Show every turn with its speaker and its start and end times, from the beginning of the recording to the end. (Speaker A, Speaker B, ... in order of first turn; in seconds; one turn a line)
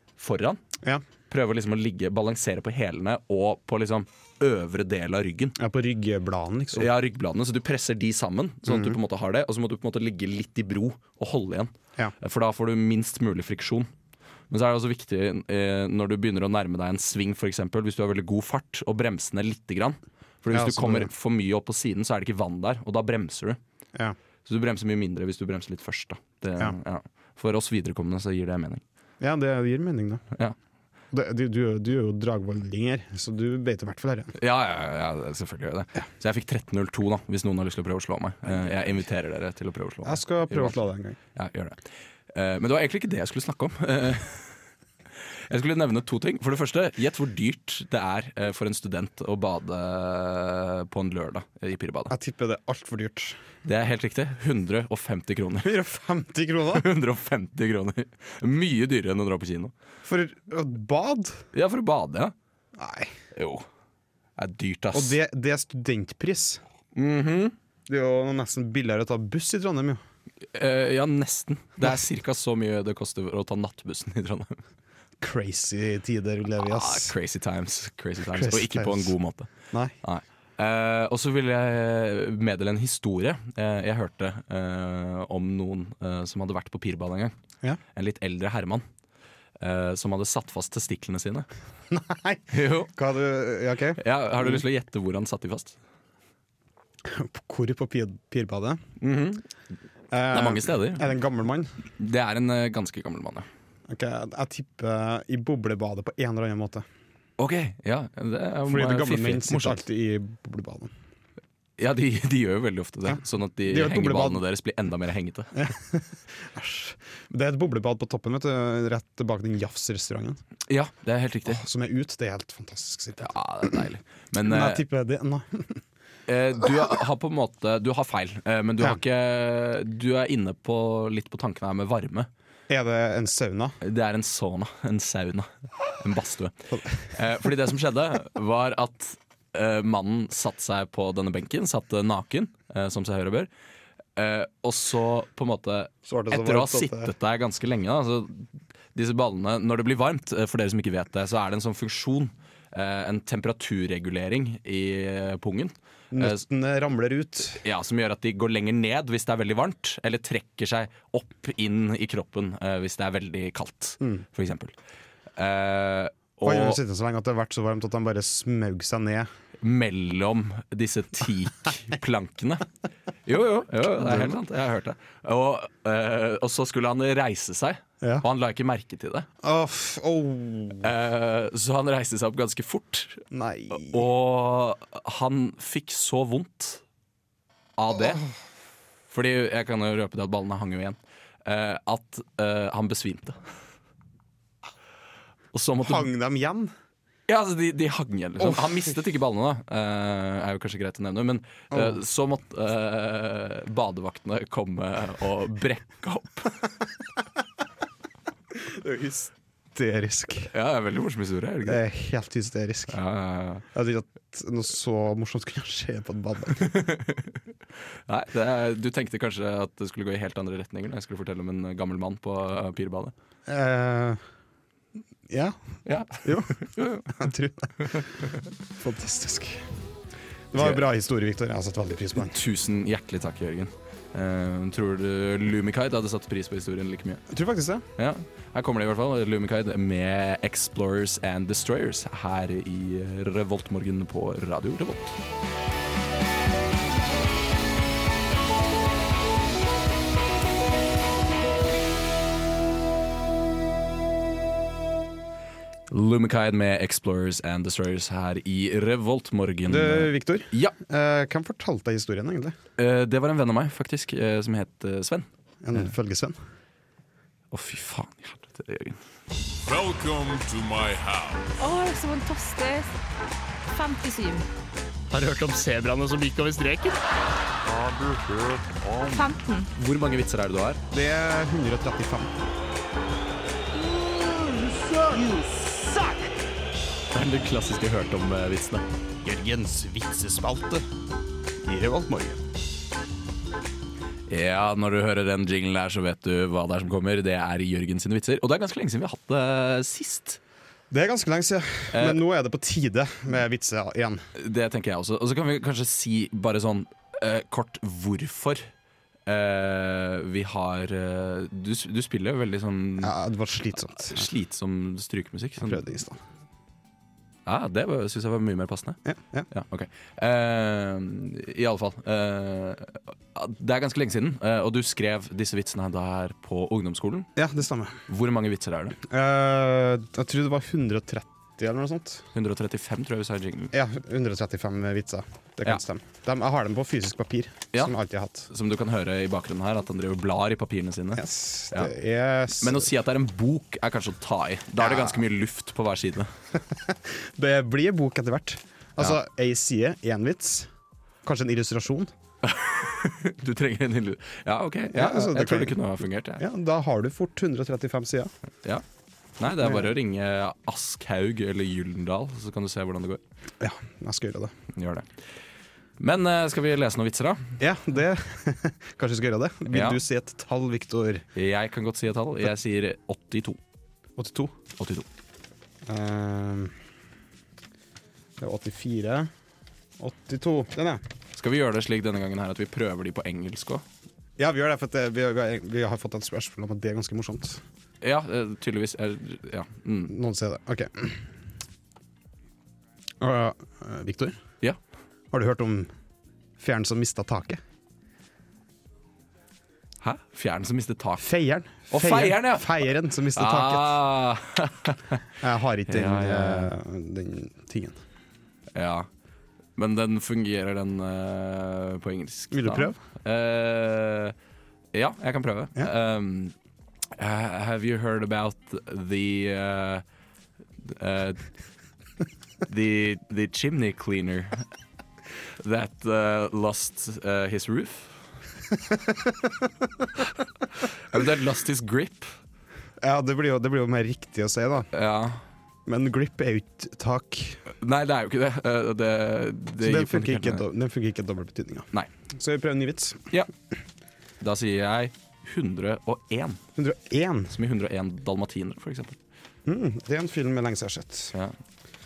Speaker A: 0.2-0.6
Speaker A: 1.3-5.5
Speaker B: 5.6-6.9
Speaker A: 6.7-13.9
Speaker B: 8.6-9.0
Speaker A: 14.5-23.6
Speaker B: 20.5-21.1
Speaker A: 24.4-28.8
Speaker B: 29.2-30.2
Speaker B: 31.1-34.3
Speaker A: 34.4-40.8
Speaker B: 40.0-41.2
Speaker A: 41.3-44.5
Speaker A: 45.5-52.1
Speaker B: 52.1-53.4
Speaker A: 53.6-55.7
Speaker B: 55.6-56.9
Speaker A: 56.7-59.7
Speaker B: 60.0-61.4
Speaker A: 61.5-62.3
Speaker B: 62.8-63.1
Speaker A: 63.3-63.6
Speaker A: 64.4-65.2
Speaker B: 64.9-66.6
Speaker A: 66.9-67.5
Speaker B: 67.9-70.0
Speaker A: 70.5-74.6
Speaker B: 75.2-77.1
Speaker A: 76.6-87.3
Speaker B: 78.3-79.1
Speaker A: 87.9-88.8
Speaker A: 89.6-91.5
Speaker B: 91.9-94.6
Speaker A: 92.5-92.9
Speaker A: 94.0-95.8
Speaker B: 97.0-98.8
Speaker A: 99.0-99.4
Speaker B: 100.1-101.7
Speaker A: 100.3-101.1
Speaker A: 102.0-103.5
Speaker B: 103.9-106.8
Speaker A: 107.4-109.8
Speaker B: 108.7-110.9
Speaker A: 111.8-115.6
Speaker B: 113.1-114.4
Speaker B: 115.5-120.4
Speaker A: 120.7-121.6
Speaker B: 121.5-123.8
Speaker A: 123.2-124.8
Speaker B: 124.3-125.8
Speaker A: 126.3-132.3
Speaker B: 132.7-133.8
Speaker A: 133.8-143.5
Speaker A: 144.2-156.4
Speaker B: 146.0-147.1
Speaker B: 156.1-157.6
Speaker A: 157.6-164.7
Speaker A: 165.4-166.8
Speaker B: 166.4-169.3
Speaker A: 169.6-172.7
Speaker A: 173.2-179.3
Speaker B: 174.0-174.3
Speaker B: 179.4-180.9
Speaker A: 180.8-186.8
Speaker B: 183.3-184.0
Speaker A: 187.8-188.2
Speaker A: 189.1-193.4
Speaker A: 195.5-196.1
Speaker B: 195.8-196.7
Speaker A: 197.3-206.5
Speaker B: 198.4-198.8
Speaker B: 201.7-202.0
Speaker B: 208.5-210.5
Speaker A: 210.5-211.8
Speaker B: 211.6-213.0
Speaker A: 212.9-213.6
Speaker B: 213.7-216.7
Speaker A: 216.6-217.3
Speaker A: 218.1-223.1
Speaker B: 223.5-224.2
Speaker B: 225.3-225.6
Speaker A: 225.8-227.2
Speaker B: 226.2-228.1
Speaker B: 228.8-229.7
Speaker B: 230.5-232.4
Speaker A: 230.6-230.8
Speaker A: 232.2-237.2
Speaker B: 237.3-237.8
Speaker A: 238.0-245.1
Speaker A: 255.9-260.7
Speaker B: 259.7-262.5
Speaker A: 262.8-265.2
Speaker B: 265.6-266.4
Speaker A: 267.5-269.0
Speaker C: 269.6-271.5
Speaker D: 271.6-272.9
Speaker D: 273.7-274.4
Speaker C: 277.6-279.3
Speaker D: 279.1-279.6
Speaker A: 279.8-280.8
Speaker B: 280.9-282.4
Speaker C: 284.3-285.2
Speaker B: 286.0-286.2
Speaker A: 287.1-288.8
Speaker B: 289.2-290.8
Speaker B: 291.6-292.4
Speaker A: 294.3-300.4
Speaker B: 300.9-304.2
Speaker A: 301.9-302.2
Speaker A: 304.4-308.7
Speaker A: 309.2-313.1
Speaker B: 313.0-314.3
Speaker A: 313.9-315.8
Speaker B: 315.6-316.2
Speaker A: 317.4-327.3
Speaker B: 319.0-319.5
Speaker B: 327.4-328.0
Speaker A: 328.1-329.0
Speaker B: 329.0-332.2
Speaker A: 332.3-333.7
Speaker B: 333.7-338.5
Speaker A: 338.5-341.9
Speaker B: 341.1-342.9
Speaker A: 342.6-346.3
Speaker B: 344.8-345.2
Speaker B: 346.5-350.7
Speaker B: 351.2-352.1
Speaker A: 352.4-356.4
Speaker B: 354.9-355.8
Speaker B: 356.4-358.3
Speaker A: 359.4-363.2
Speaker B: 363.6-364.5
Speaker A: 364.7-365.1
Speaker A: 366.0-367.6
Speaker B: 367.6-371.2
Speaker A: 369.7-370.0
Speaker A: 371.3-373.6
Speaker B: 374.2-374.5
Speaker A: 374.8-375.1
Speaker B: 375.9-376.7
Speaker B: 378.4-379.3
Speaker B: 380.0-381.0
Speaker A: 381.3-383.8
Speaker B: 384.4-387.6
Speaker A: 388.0-390.1
Speaker B: 390.1-391.2
Speaker B: 393.2-394.4
Speaker B: 395.3-395.9
Speaker B: 396.6-397.6
Speaker A: 400.0-401.3
Speaker B: 401.2-404.0
Speaker A: 401.9-405.2
Speaker B: 405.4-408.0
Speaker A: 405.9-406.7
Speaker A: 408.7-409.1
Speaker A: 409.8-414.3
Speaker B: 412.5-413.0
Speaker A: 414.9-416.5
Speaker A: 417.2-420.0
Speaker A: 420.8-421.4
Speaker A: 422.6-424.6
Speaker A: 425.6-428.2
Speaker A: 431.1-432.3
Speaker B: 433.0-434.9
Speaker A: 434.9-435.4
Speaker B: 435.9-437.6
Speaker A: 437.7-440.6
Speaker B: 439.8-443.3
Speaker A: 444.4-446.6
Speaker B: 446.8-447.6
Speaker A: 447.5-449.2
Speaker B: 449.6-451.3